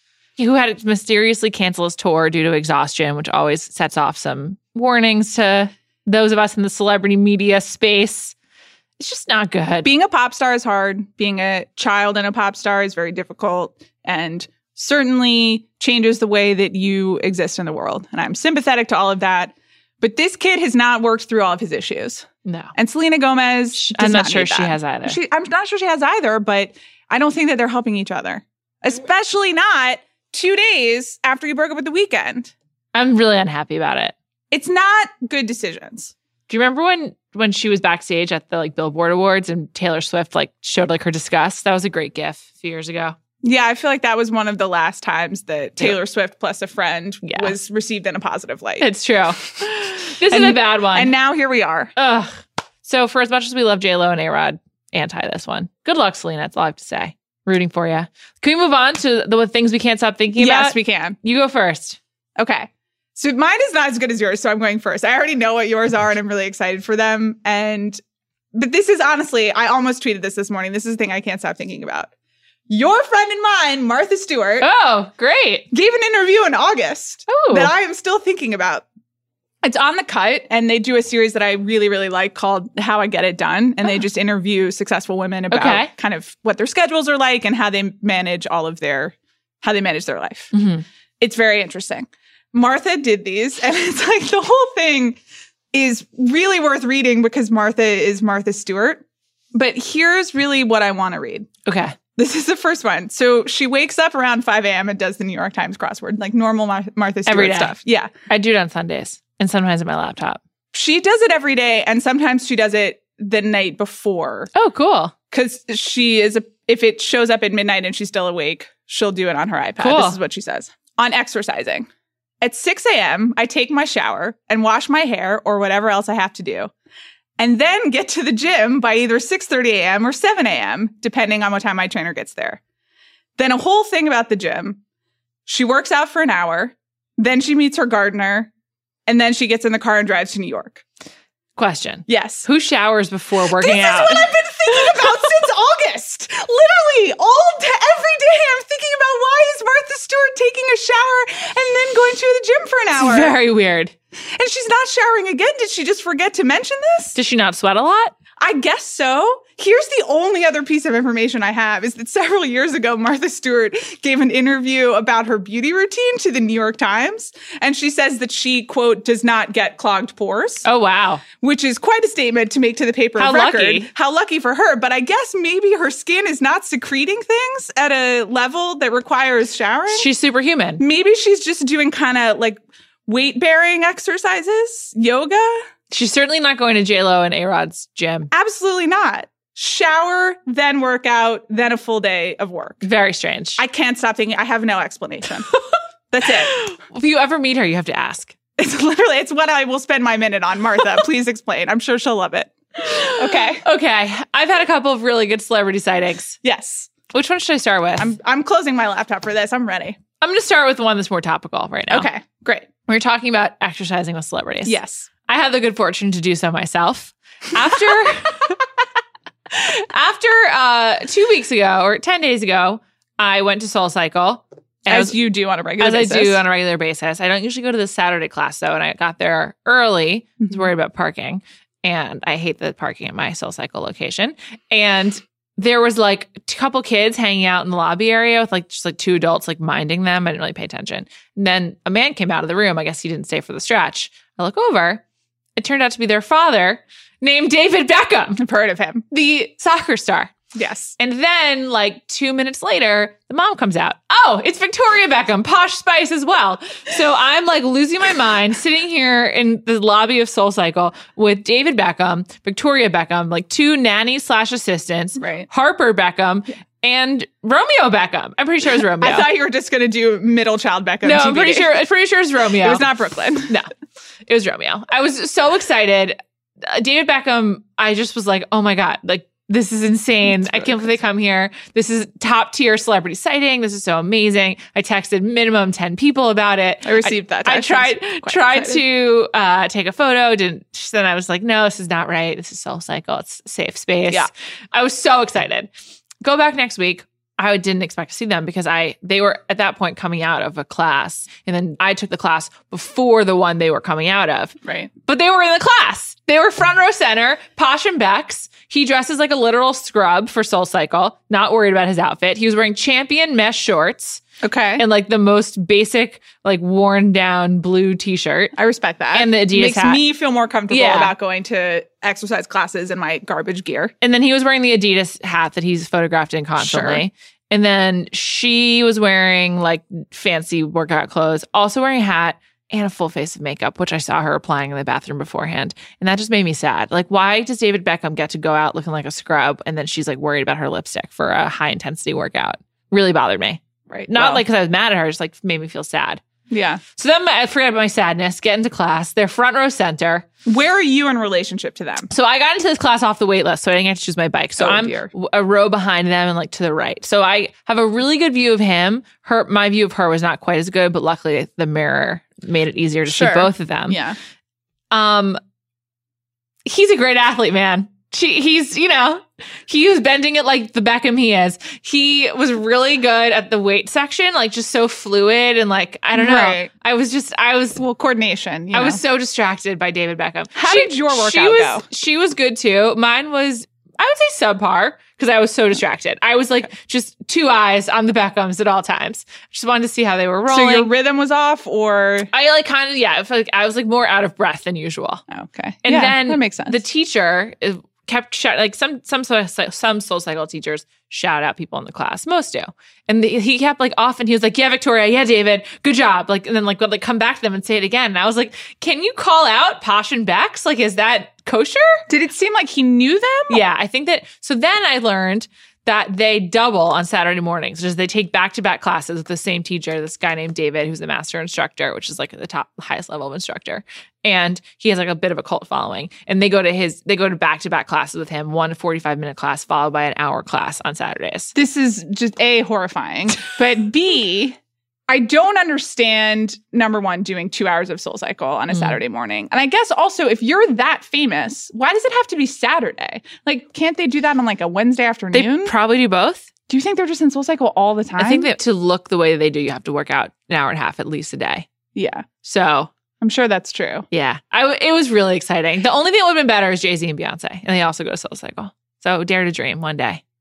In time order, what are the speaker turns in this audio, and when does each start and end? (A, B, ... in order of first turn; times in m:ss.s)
0:00.4-0:08.3 A
0:09.0-0:09.9 A
0:09.8-0:32.5 B
0:22.4-0:22.7 A
0:23.7-0:25.2 A
0:32.9-0:34.1 A
0:34.5-0:36.1 B
0:36.5-0:43.2 A
0:43.4-0:48.9 B
0:47.2-0:47.5 A
0:48.8-0:51.1 A
0:50.3-0:51.9 B
0:52.0-1:02.0 A
1:00.4-1:01.2 B
1:02.4-1:08.0 B
1:08.5-1:12.1 B
1:12.7-1:14.7 B
1:14.6-1:15.7 A
1:15.7-1:18.8 B
1:17.3-1:17.7 A
1:19.6-1:30.5 B
1:25.5-1:25.9 A
1:30.5-1:30.8 A
1:31.2-1:35.2 B
1:35.7-1:41.5 B
1:41.6-1:42.0 A
1:42.2-1:48.1 B
1:47.2-1:47.8 A
1:48.3-1:50.4 A
1:50.7-1:54.5 B
1:54.5-1:55.1 A
1:55.3-2:01.9 B
1:59.8-2:00.2 A
2:02.4-2:06.7 B
2:07.4-2:12.6 B
2:13.4-2:14.8 B
2:15.4-2:18.5 B
2:19.1-2:20.8 B
2:21.6-2:25.1 A
2:22.1-2:22.4 B
2:23.4-2:33.3 B
2:33.0-2:33.9 A
2:34.2-2:37.2 B
2:37.1-2:38.1 A
2:38.4-2:50.6 B
2:50.6-2:51.2 A
2:51.4-3:00.1 B
2:53.2-2:53.9 A
2:59.9-3:00.8 A
3:00.8-3:05.6 B
3:05.9-3:08.3 A
3:08.3-3:12.8 B
3:12.8-3:13.6 A
3:13.6-3:15.5 B
3:16.1-3:16.6 B
3:16.5-3:18.3 A
3:18.6-3:23.6 B
3:22.8-3:26.4 A
3:26.4-3:26.9 B
3:27.1-3:28.1 A
3:28.0-3:30.0 B
3:30.2-3:32.1 A
3:31.9-3:32.7 B
3:32.9-3:38.6 A
3:34.6-3:35.1 B
3:39.5-3:45.2 A
3:44.9-3:46.4 B
3:45.8-4:05.0 A
4:05.6-4:08.4 A
4:08.4-4:09.0 B
4:09.1-4:10.4 A
4:10.5-4:10.9 B
4:11.0-4:29.3 A
4:25.2-4:25.5 B
4:29.0-4:31.8 B
4:31.0-4:32.8 A
4:32.6-4:33.5 B
4:34.3-4:55.7 A
4:46.8-4:48.8 B
4:56.2-5:14.2 A
5:04.6-5:04.9 B
5:14.4-5:14.8 B
5:14.8-5:18.5 A
5:18.6-5:23.9 B
5:19.1-5:20.0 A
5:20.7-5:21.1 A
5:24.0-5:46.2 A
5:26.6-5:27.0 B
5:43.9-5:44.4 B
5:46.5-5:46.8 B
5:46.9-5:50.2 A
5:50.4-5:52.1 B
5:52.1-6:04.0 A
5:54.6-5:55.1 B
6:03.1-6:04.2 B
6:04.9-6:05.4 A
6:06.6-6:17.8 A
6:16.1-6:16.7 B
6:17.8-6:19.0 B
6:18.7-6:30.9 A
6:20.5-6:21.8 B
6:30.5-6:32.3 B
6:32.3-6:35.2 A
6:35.3-6:36.8 B
6:35.8-6:52.1 A
6:52.1-6:53.6 B
6:53.5-7:11.5 A
7:11.5-7:14.6 B
7:15.1-7:25.7 B
7:25.3-7:26.5 A
7:26.7-7:28.5 B
7:28.2-7:31.7 A
7:31.9-7:32.2 B
7:32.4-7:32.9 A
7:33.2-7:34.1 B
7:34.1-7:40.2 A